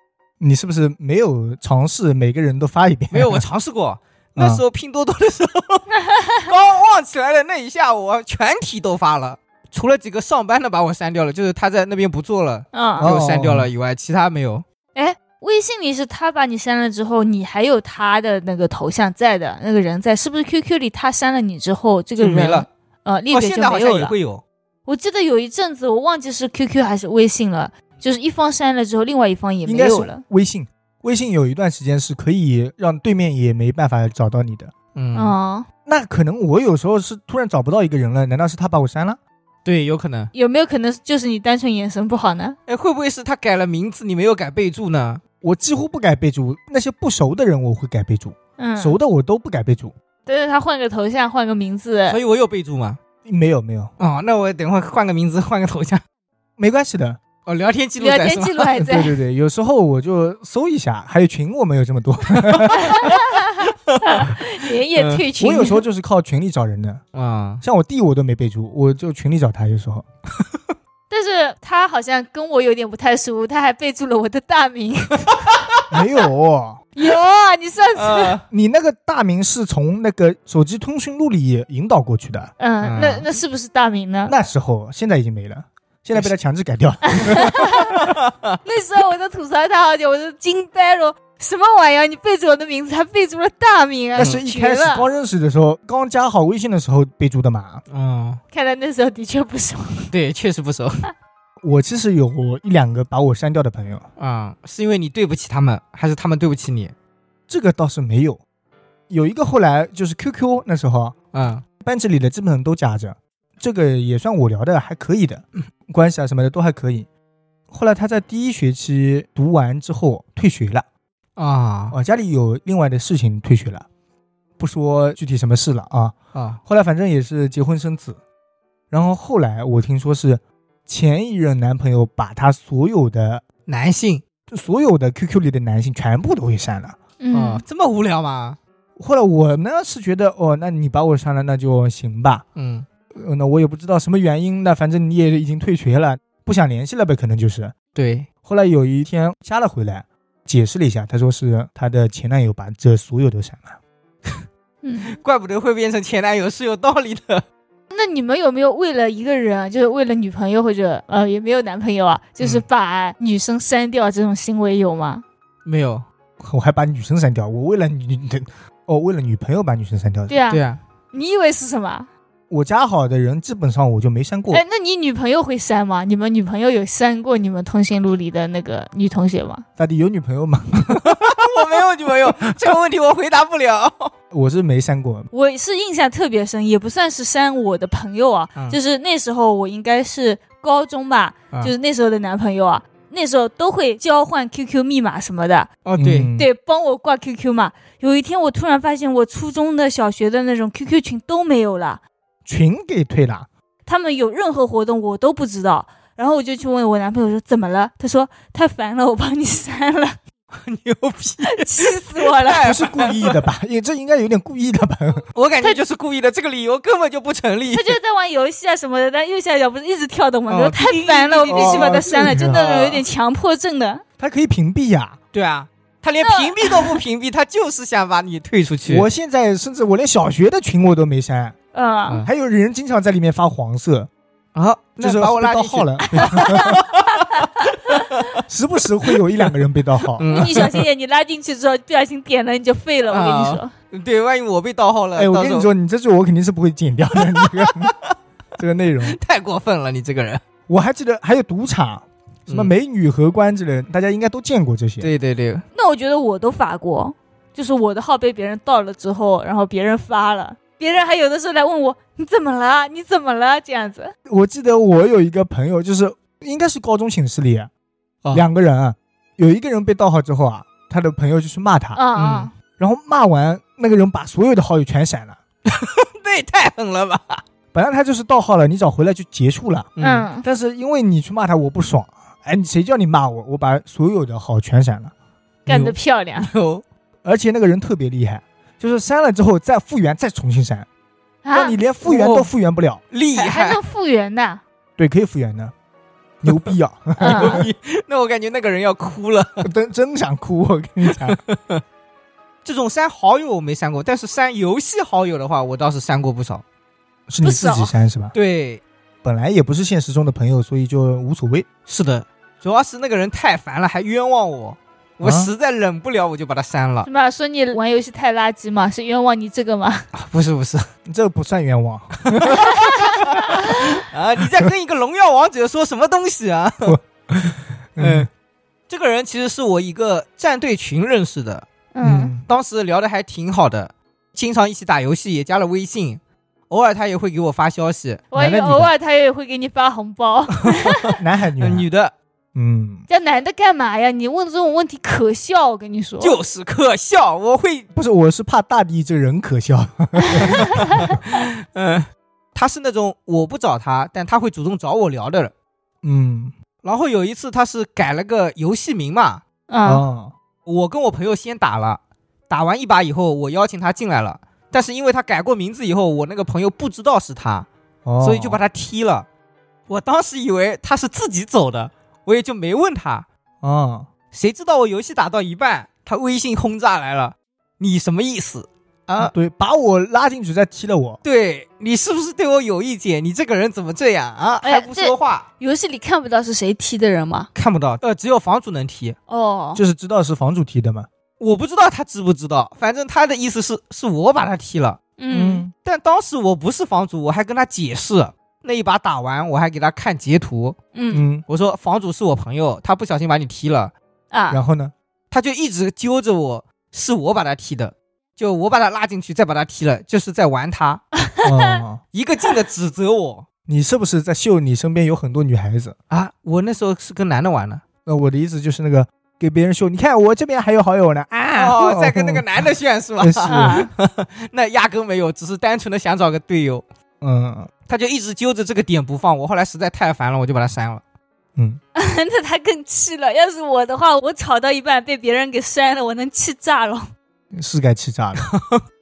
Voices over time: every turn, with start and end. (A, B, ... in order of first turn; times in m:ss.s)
0:00.4-0:03.4 A
0:03.1-0:05.9 B
0:04.4-0:04.6 A
0:06.0-0:06.5 C
0:06.4-0:14.6 B
0:12.7-0:13.1 C
0:13.0-0:13.7 A
0:14.9-0:24.1 C
0:22.2-0:22.7 B
0:23.3-0:24.4 B
0:24.8-0:30.2 C
0:29.6-0:34.7 A
0:34.9-0:35.4 B
0:35.1-0:35.6 C
0:35.8-0:39.2 A
0:39.6-0:40.3 B
0:40.3-0:42.6 C
0:42.7-0:45.2 B
0:45.4-0:49.9 A
0:48.6-0:49.0 C
0:50.2-0:52.2 C
0:52.1-0:53.0 B
0:53.2-0:53.9 A
0:54.0-0:56.0 B
0:56.6-0:57.2 A
0:57.4-0:58.7 B
0:58.0-0:59.2 C
0:58.8-1:03.0 A
1:02.4-1:04.3 B
1:02.7-1:05.8 C
1:04.9-1:05.2 B
1:05.4-1:07.0 A
1:07.1-1:07.6 B
1:07.6-1:10.0 A
1:11.1-1:15.3 C
1:15.9-1:16.8 A
1:17.0-1:18.4 C
1:18.0-1:18.4 B
1:18.5-1:22.5 A
1:22.6-1:24.3 C
1:22.8-1:23.2 B
1:24.3-1:28.1 A
1:27.3-1:27.9 C
1:28.0-1:28.6 B
1:28.6-1:35.1 C
1:34.1-1:37.8 A
1:37.9-1:38.4 B
1:38.5-1:40.1 C
1:40.1-1:41.0 B
1:41.6-1:44.0 A
1:44.2-1:46.9 B
1:47.5-1:48.4 A
1:49.1-1:51.1 A
1:51.3-1:51.6 B
1:51.8-1:57.1 A
1:57.7-2:00.8 A
2:01.4-2:02.0 B
2:01.9-2:03.8 A
2:04.6-2:08.2 A
2:08.9-2:13.4 A
2:13.6-2:14.2 B
2:14.5-2:17.0 A
2:17.2-2:17.6 C
2:17.3-2:18.6 B
2:19.0-2:22.4 A
2:22.5-2:22.8 B
2:23.1-2:27.7 A
2:27.9-2:28.3 B
2:28.4-2:33.8 A
2:34.8-2:35.2 C
2:35.0-2:37.4 B
2:37.9-2:45.2 C
2:45.6-2:46.0 B
2:46.4-2:50.4 A
2:50.3-2:52.1 C
2:50.5-2:50.8 B
2:52.5-2:54.6 A
2:54.5-2:59.6 C
2:59.8-3:01.4 A
3:01.0-3:04.1 B
3:04.3-3:05.3 A
3:05.3-3:15.7 C
3:15.8-3:16.3 B
3:16.0-3:16.5 A
3:16.4-3:22.0 C
3:22.4-3:23.5 A
3:23.8-3:30.2 C
3:30.5-3:33.4 B
3:31.4-3:32.7 C
3:32.6-3:35.2 A
3:35.3-3:38.0 B
3:37.7-3:44.0 C
3:40.5-3:43.0 B
3:41.5-3:42.6 A
3:44.2-3:45.2 A
3:45.3-3:49.1 B
3:46.2-3:47.0 C
3:48.8-3:51.5 A
3:51.7-3:52.2 C
3:52.2-3:54.1 A
3:54.5-3:58.4 B
3:55.0-3:56.8 A
3:56.2-3:56.7 C
3:58.5-4:00.3 A
4:00.2-4:00.8 B
4:00.3-4:03.7 C
4:03.1-4:05.7 B
4:05.2-4:07.9 A
4:07.2-4:08.1 B
4:08.6-4:09.2 A
4:09.0-4:10.4 B
4:10.7-4:15.1 A
4:12.5-4:12.7 B
4:15.0-4:15.6 B
4:15.7-4:24.1 C
4:24.2-4:27.7 A
4:28.3-4:32.0 A
4:31.9-4:32.5 C
4:32.2-4:32.5 B
4:32.8-4:35.4 A
4:35.7-4:37.4 B
4:37.7-4:39.9 A
4:40.0-4:40.3 B
4:40.0-4:40.4 C
4:40.4-4:45.1 A
4:45.6-4:46.5 C
4:45.7-4:46.8 B
4:47.2-4:50.8 A
4:51.4-4:51.8 C
4:51.5-4:53.0 A
4:52.0-4:52.5 B
4:53.1-4:53.8 B
4:53.3-4:54.6 C
4:55.0-4:55.7 A
4:56.4-4:57.7 A
4:56.4-4:56.7 B
4:57.2-4:57.6 C
4:57.2-4:59.7 B
4:59.6-5:01.4 A
5:01.1-5:01.8 B
5:02.6-5:06.6 B
5:07.3-5:08.3 A
5:07.4-5:07.9 C
5:08.3-5:08.8 B
5:09.2-5:11.7 A
5:11.9-5:17.1 B
5:15.2-5:15.5 A
5:17.0-5:20.1 C
5:20.1-5:20.8 B
5:21.1-5:23.4 A
5:22.3-5:27.0 B
5:22.6-5:23.7 C
5:24.4-5:24.7 A
5:26.8-5:28.3 A
5:28.0-5:28.3 B
5:28.9-5:31.6 B
5:31.9-5:32.3 C
5:32.0-5:32.5 A
5:32.5-5:38.2 B
5:38.3-5:41.1 C
5:38.3-5:38.9 A
5:40.7-5:42.1 B
5:41.2-5:41.9 A
5:42.5-5:43.0 A
5:43.1-5:46.4 C
5:46.2-5:47.9 B
5:47.9-5:51.1 A
5:50.8-5:55.5 B
5:56.0-5:56.5 A
5:56.8-5:59.4 B
5:59.7-6:00.0 C
5:59.8-6:00.3 A
6:00.6-6:07.7 B
6:08.0-6:08.6 A
6:08.2-6:09.3 B
6:09.9-6:13.2 B
6:13.6-6:14.1 A
6:14.3-6:19.3 B
6:19.2-6:21.2 A
6:21.2-6:25.4 B
6:24.6-6:27.5 C
6:27.5-6:29.2 B
6:29.3-6:29.8 C
6:29.7-6:31.1 A
6:31.4-6:35.0 B
6:35.2-6:35.6 C
6:35.3-6:35.7 A
6:35.8-6:40.8 B
6:40.9-6:41.2 C
6:41.1-6:41.4 A
6:41.5-6:43.9 B
6:44.3-6:44.6 C
6:44.5-6:44.9 A
6:45.3-6:51.0 B
6:51.4-6:52.0 A
6:52.1-6:53.4 B
6:53.7-6:55.9 A
6:56.1-6:57.8 B
6:58.0-7:02.4 A
7:01.5-7:06.8 B
7:03.2-7:03.8 A
7:03.5-7:03.9 C
7:07.2-7:07.7 A
7:07.9-7:11.0 B
7:11.9-7:17.1 C
7:17.5-7:18.4 A
7:18.5-7:18.8 B